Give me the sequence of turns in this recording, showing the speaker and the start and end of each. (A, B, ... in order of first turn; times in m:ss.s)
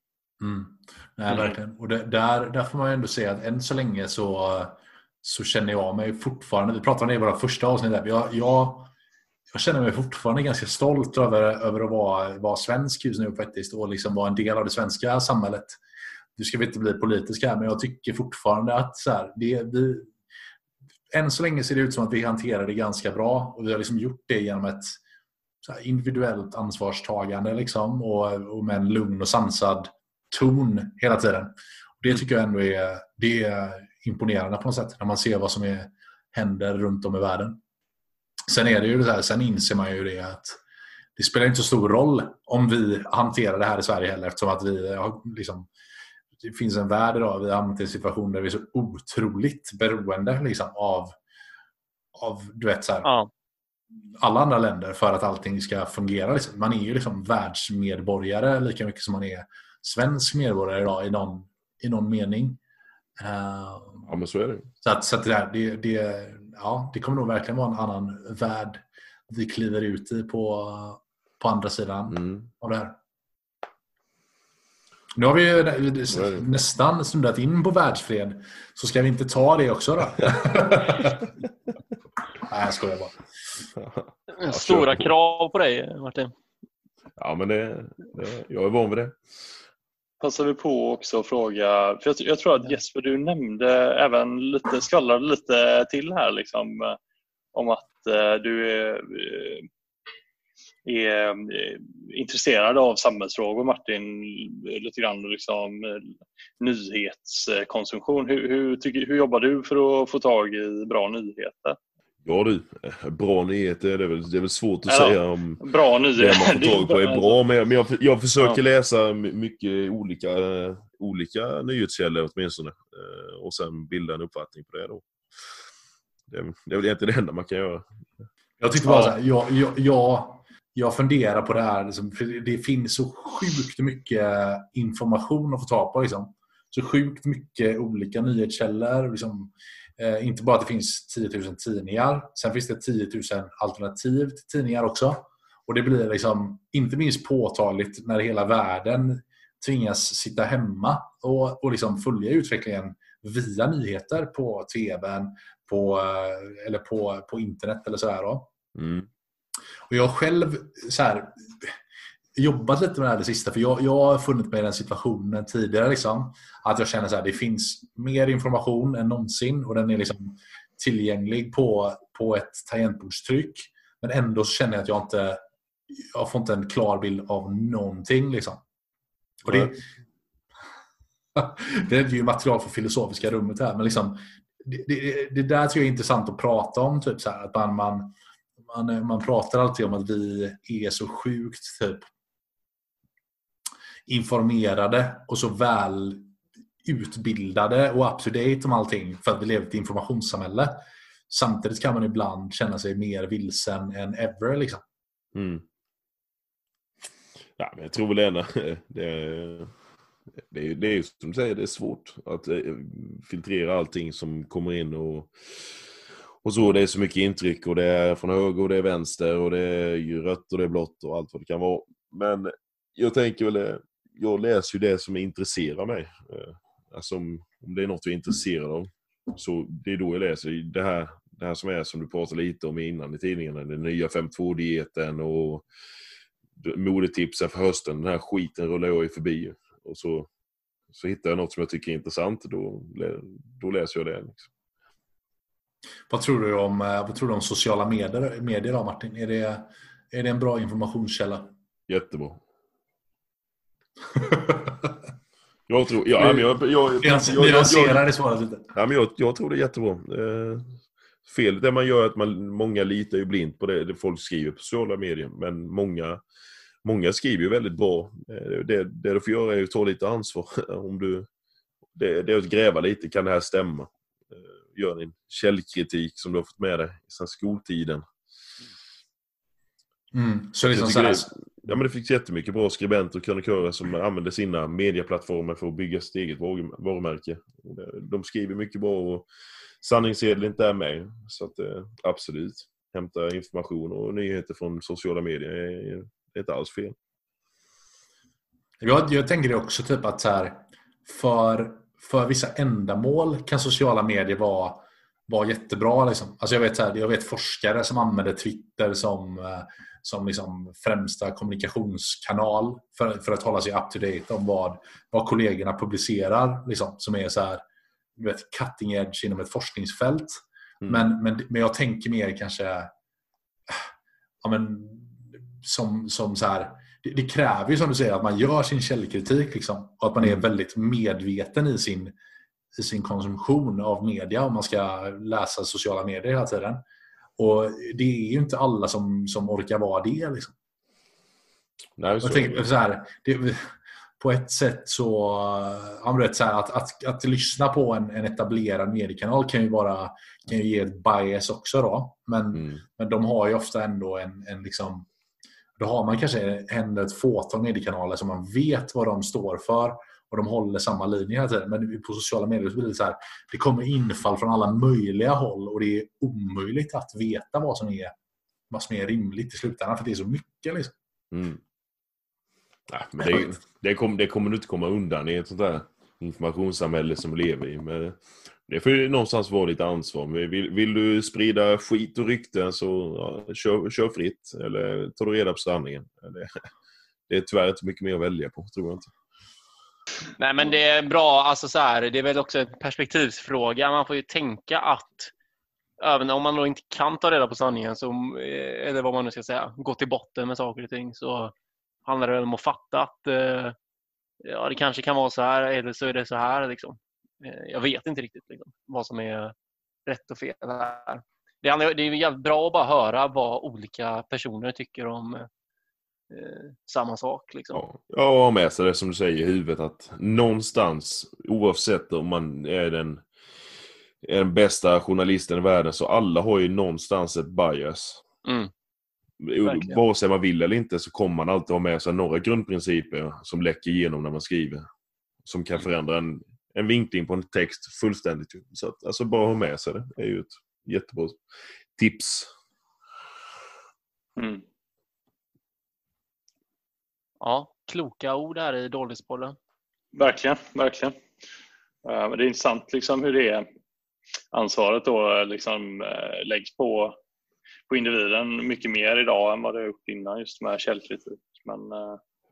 0:00.4-0:08.9 A
0:09.5-0:15.8 A
0:16.4-0:20.1 A
0:21.1-0:25.0 A
0:25.6-0:37.6 A
0:38.5-0:40.6 A
0:41.2-0:45.7 A
0:46.4-0:51.2 A
0:52.1-0:53.1 A
0:53.0-0:53.3 B
0:54.2-1:02.6 A
1:03.2-1:04.1 A
1:04.0-1:04.7 C
1:04.8-1:13.0 A
1:12.1-1:12.5 C
1:15.2-1:21.2 A
1:16.1-1:16.5 C
1:22.4-1:23.2 A
1:23.8-1:25.1 C
1:24.4-1:26.3 B
1:27.2-1:29.2 C
1:30.2-1:37.0 D
1:37.5-1:39.7 D
1:40.9-1:51.8 D
1:52.2-1:55.6 C
1:54.9-1:57.4 D
1:56.2-2:05.1 C
2:06.3-2:07.9 C
2:08.6-2:38.5 A
2:08.9-2:09.1 D
2:38.8-2:39.1 C
2:39.9-2:41.8 A
2:42.4-2:55.4 A
2:55.9-2:58.6 A
2:59.4-2:59.8 A
2:59.5-2:59.7 C
3:01.4-3:08.2 A
3:08.7-3:12.1 A
3:14.1-3:16.3 A
3:16.8-3:24.8 A
3:25.4-3:25.6 C
3:27.6-3:29.7 C
3:30.5-3:35.8 C
3:36.4-3:55.6 C
3:56.6-4:00.3 C
4:00.9-4:04.5 C
4:06.1-4:11.5 A
4:11.9-4:12.4 C
4:14.1-4:15.0 A
4:15.7-4:18.1 C
4:16.2-4:18.7 A
4:18.7-4:26.2 C
4:26.8-4:31.3 C
4:32.0-4:38.0 C
4:40.1-4:41.3 A
4:40.7-4:49.3 C
4:49.8-4:57.0 C
4:58.8-5:17.6 A
5:18.2-5:22.9 A
5:20.8-5:21.1 C
5:24.4-5:32.1 A
5:32.8-5:36.8 A
5:37.4-5:40.5 A
5:42.0-5:42.7 C
5:42.2-5:55.1 A
5:52.5-5:52.8 C
5:55.8-6:08.1 A
6:08.7-6:10.9 A
6:11.3-6:11.6 C
6:12.9-6:26.6 C
6:27.3-6:29.1 C
6:30.4-6:35.3 B
6:36.0-6:41.5 B
6:42.0-6:43.8 B
6:44.4-6:49.5 B
6:50.1-6:55.5 B
6:56.3-6:57.8 B
6:57.7-7:03.2 C
7:04.2-7:08.2 C
7:08.4-7:08.7 B
7:09.4-7:14.9 C
7:09.6-7:10.0 B
7:15.4-7:21.4 C
7:22.0-7:22.5 C
7:24.4-7:24.6 D
7:27.4-7:29.6 B
7:30.2-7:31.2 D
7:32.0-7:33.7 D
7:34.5-7:37.2 D
7:37.9-7:42.2 D